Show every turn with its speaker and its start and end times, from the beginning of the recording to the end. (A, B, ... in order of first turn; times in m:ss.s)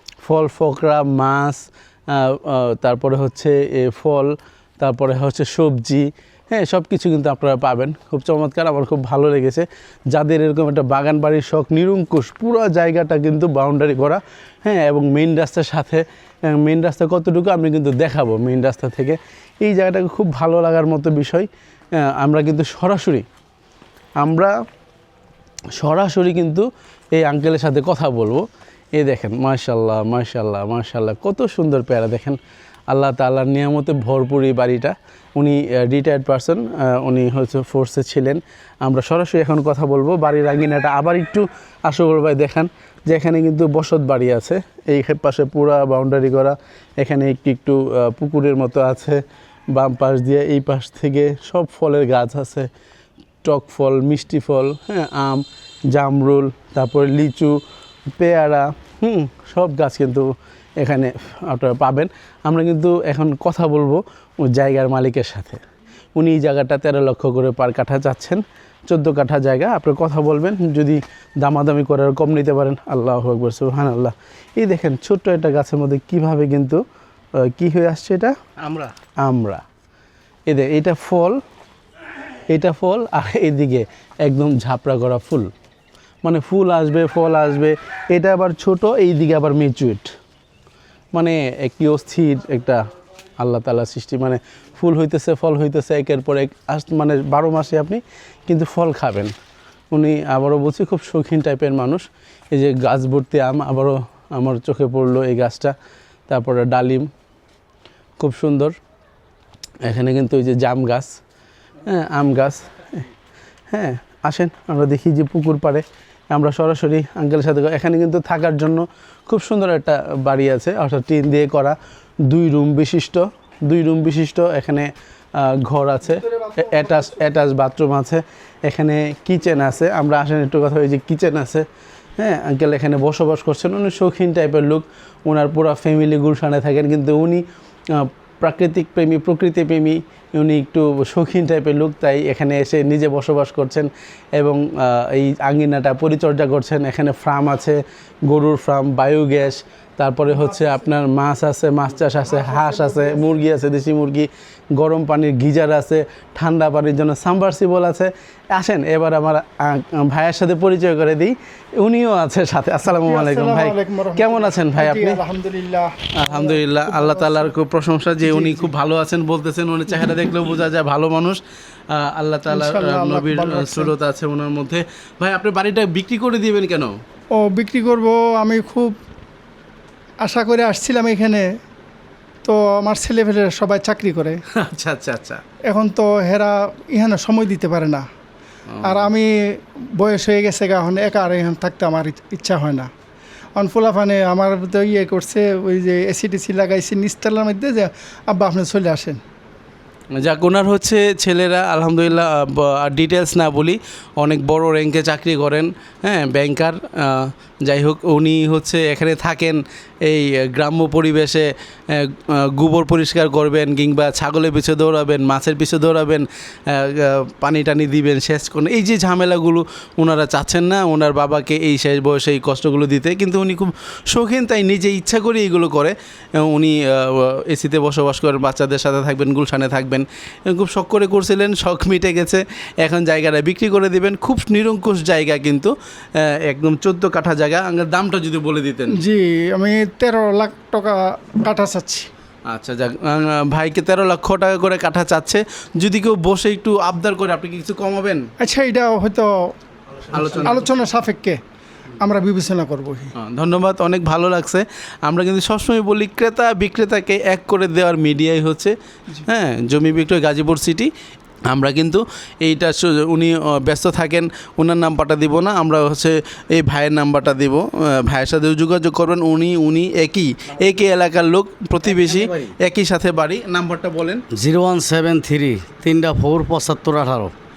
0:00.2-0:23.2 A
0:24.2-0:24.5 A
0:25.8-0:32.4 A
0:32.9-0:52.7 A
0:53.4-0:57.6 A
0:58.2-1:05.6 A
1:06.2-1:16.8 A
1:17.4-1:19.6 A
1:20.5-1:21.4 A
1:22.5-1:25.5 A
1:26.2-1:30.1 A
1:31.1-1:32.8 A
1:33.4-1:39.3 A
1:39.9-1:45.7 A
1:46.3-1:47.1 A
1:48.2-1:48.8 A
1:49.8-1:51.2 A
1:51.9-1:53.0 A
1:53.7-2:11.6 A
2:12.2-2:45.2 A
2:32.4-2:33.2 B
2:42.9-2:47.5 B
2:46.2-2:57.0 A
2:48.2-2:48.7 B
2:52.5-2:53.9 B
2:57.3-2:59.0 B
3:00.2-3:01.5 B
3:02.4-3:04.4 B
3:04.5-3:05.4 A
3:05.7-3:08.0 B
3:08.7-3:09.1 A
3:08.8-3:12.9 B
3:13.6-3:19.2 B
3:20.1-3:59.0 A
3:58.9-4:02.1 B
4:02.5-4:08.3 A
4:08.4-4:09.3 B
4:10.1-4:10.8 A
4:10.2-4:11.4 B
4:12.0-4:13.1 B
4:13.1-4:20.9 A
4:21.5-4:34.2 A
4:32.0-4:32.5 C
4:34.3-4:37.3 C